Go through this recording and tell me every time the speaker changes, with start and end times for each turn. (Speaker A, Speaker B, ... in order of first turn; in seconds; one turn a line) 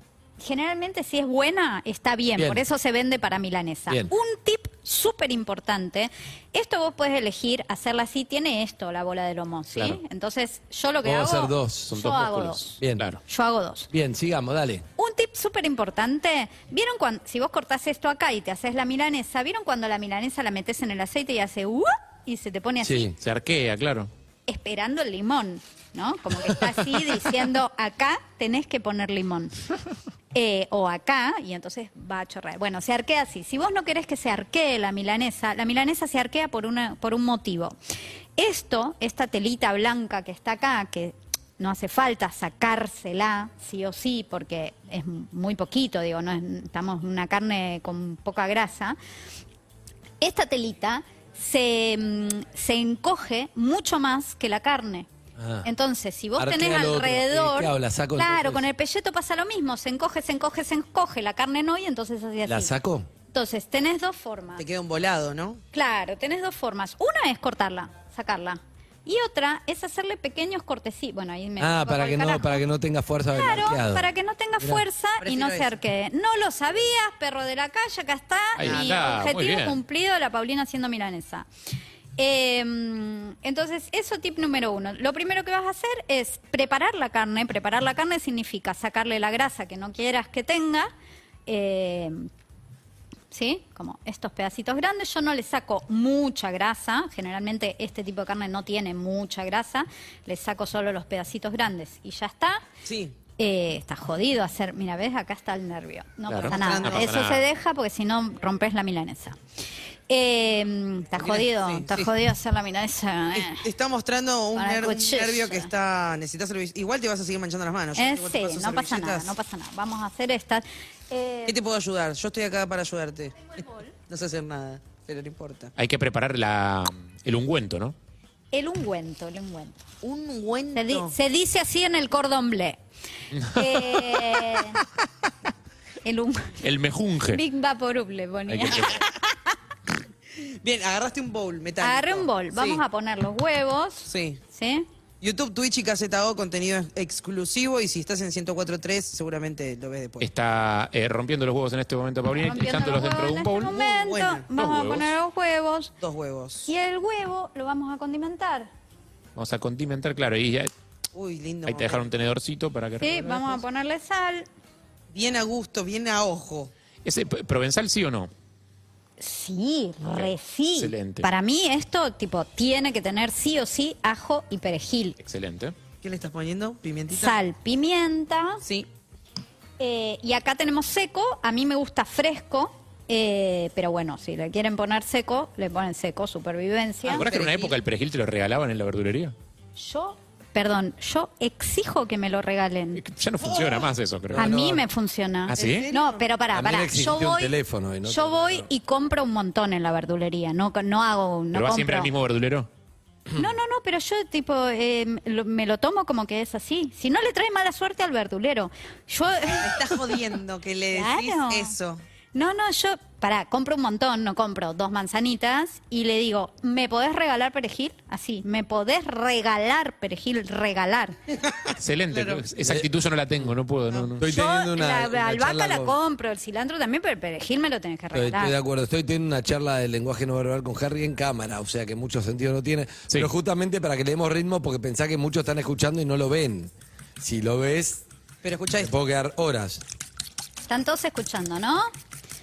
Speaker A: 0.4-13.9
Speaker B: 2.4-2.6
Speaker C: 9.7-10.0
Speaker B: 11.0-11.9
Speaker C: 11.9-13.2
Speaker B: 12.8-13.0
Speaker B: 13.9-14.8
Speaker A: 15.0-23.1
Speaker B: 22.8-23.2
Speaker C: 23.2-24.1
Speaker A: 24.5-29.5
Speaker A: 30.3-37.8
Speaker A: 38.4-49.0
Speaker A: 50.2-55.1
Speaker B: 55.4-55.7
Speaker A: 55.6-62.7
Speaker B: 56.4-58.6
Speaker B: 62.5-63.1
Speaker A: 63.3-64.6
Speaker D: 64.6-65.6
Speaker A: 65.7-72.6
Speaker B: 71.6-74.1
Speaker A: 73.3-81.5
Speaker D: 75.2-75.8
Speaker C: 78.6-79.8
Speaker D: 78.6-79.0
Speaker A: 82.2-90.9
Speaker A: 91.5-92.2
Speaker A: 93.3-102.6
Speaker D: 102.8-103.1
Speaker A: 103.4-109.4
Speaker C: 106.3-107.4
Speaker D: 106.4-107.1
Speaker A: 110.1-113.7
Speaker D: 111.2-112.1
Speaker D: 113.3-119.3
Speaker A: 114.5-115.7
Speaker A: 118.0-121.6
Speaker D: 121.5-123.5
Speaker A: 123.6-123.8
Speaker D: 124.1-125.7
Speaker C: 125.8-127.9
Speaker A: 128.5-129.8
Speaker D: 130.0-131.1
Speaker A: 130.7-132.8
Speaker C: 133.3-134.2
Speaker A: 133.5-134.8
Speaker A: 136.0-136.6
Speaker C: 136.6-137.4
Speaker A: 137.3-139.0
Speaker C: 138.5-139.0
Speaker D: 140.3-142.8
Speaker A: 141.8-144.8
Speaker D: 144.1-144.4
Speaker D: 145.2-150.3
Speaker C: 150.2-153.7
Speaker A: 152.3-155.9
Speaker D: 153.7-154.4
Speaker C: 154.6-155.1
Speaker D: 156.0-156.7
Speaker A: 156.7-158.7
Speaker C: 159.3-160.7
Speaker D: 161.1-162.1
Speaker C: 161.7-163.4
Speaker A: 163.0-164.5
Speaker D: 165.1-166.7
Speaker C: 167.0-168.3
Speaker A: 169.2-175.2
Speaker C: 170.1-171.3
Speaker C: 175.2-175.7
Speaker D: 176.0-177.4
Speaker A: 177.1-178.6
Speaker A: 179.8-187.2
Speaker D: 187.0-187.7
Speaker C: 187.1-189.3
Speaker A: 189.8-193.0
Speaker C: 193.0-194.5
Speaker D: 193.4-193.9
Speaker B: 194.3-194.8
Speaker A: 194.4-202.1
Speaker C: 195.5-195.9
Speaker D: 195.6-196.2
Speaker B: 196.5-198.7
Speaker C: 201.5-202.7
Speaker A: 203.3-210.0
Speaker D: 209.5-212.0
Speaker A: 210.9-211.7
Speaker A: 212.3-221.1
Speaker D: 221.5-222.4
Speaker C: 221.8-224.2
Speaker B: 222.6-222.9
Speaker B: 224.2-226.0
Speaker A: 224.3-228.5
Speaker B: 228.1-238.0
Speaker D: 238.4-238.9
Speaker B: 238.8-239.8
Speaker A: 240.7-241.9